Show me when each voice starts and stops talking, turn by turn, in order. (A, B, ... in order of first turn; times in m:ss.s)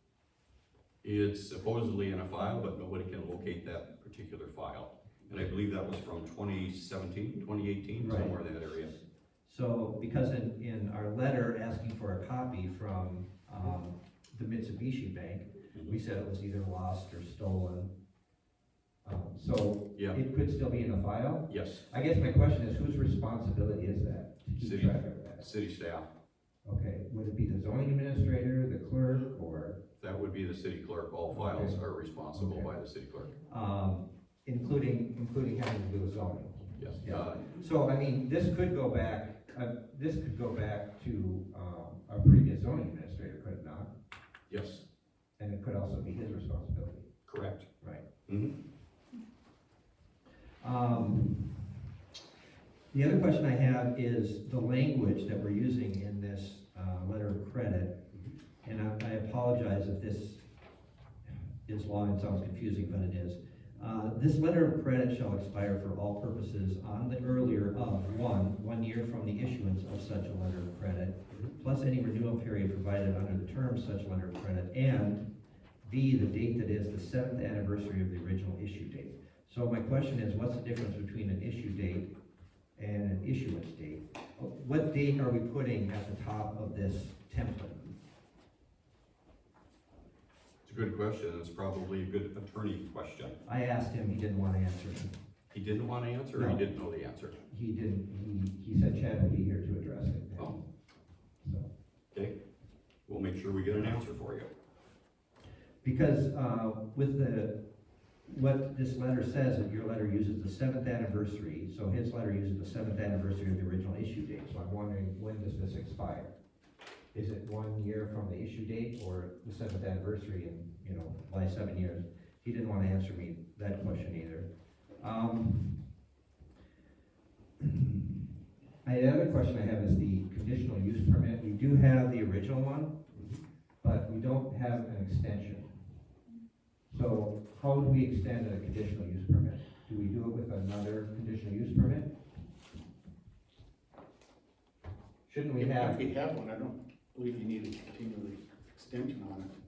0:01.0-0:08.9 A
0:08.0-0:08.4 B
0:09.4-0:17.9 B
0:19.0-0:25.5 B
0:21.5-0:21.8 A
0:24.6-0:26.0 A
0:26.6-0:29.8 B
0:30.0-0:33.3 A
0:31.3-0:31.8 B
0:32.3-0:32.7 B
0:33.4-0:43.9 B
0:36.8-0:37.6 A
0:44.5-0:44.8 A
0:45.4-0:47.1 B
0:47.3-0:47.6 A
0:48.3-0:48.5 A
0:50.6-0:51.8 B
0:52.9-0:58.0 B
0:58.6-1:00.4 B
1:01.6-1:15.3 B
1:15.8-1:22.1 B
1:22.8-1:28.0 B
1:30.6-1:33.4 A
1:33.4-1:35.1 B
1:35.5-1:37.4 A
1:36.3-1:36.6 B
1:37.5-1:40.6 B
1:41.4-1:41.7 B
1:43.1-1:44.5 A
1:45.8-1:47.5 B
1:48.3-1:56.3 B
1:57.1-2:05.9 B
2:07.6-2:08.1 B
2:08.8-2:12.9 B
2:13.1-2:13.4 A
2:13.8-2:15.8 B
2:16.9-2:22.1 B
2:25.3-2:26.0 B
2:25.6-2:29.5 C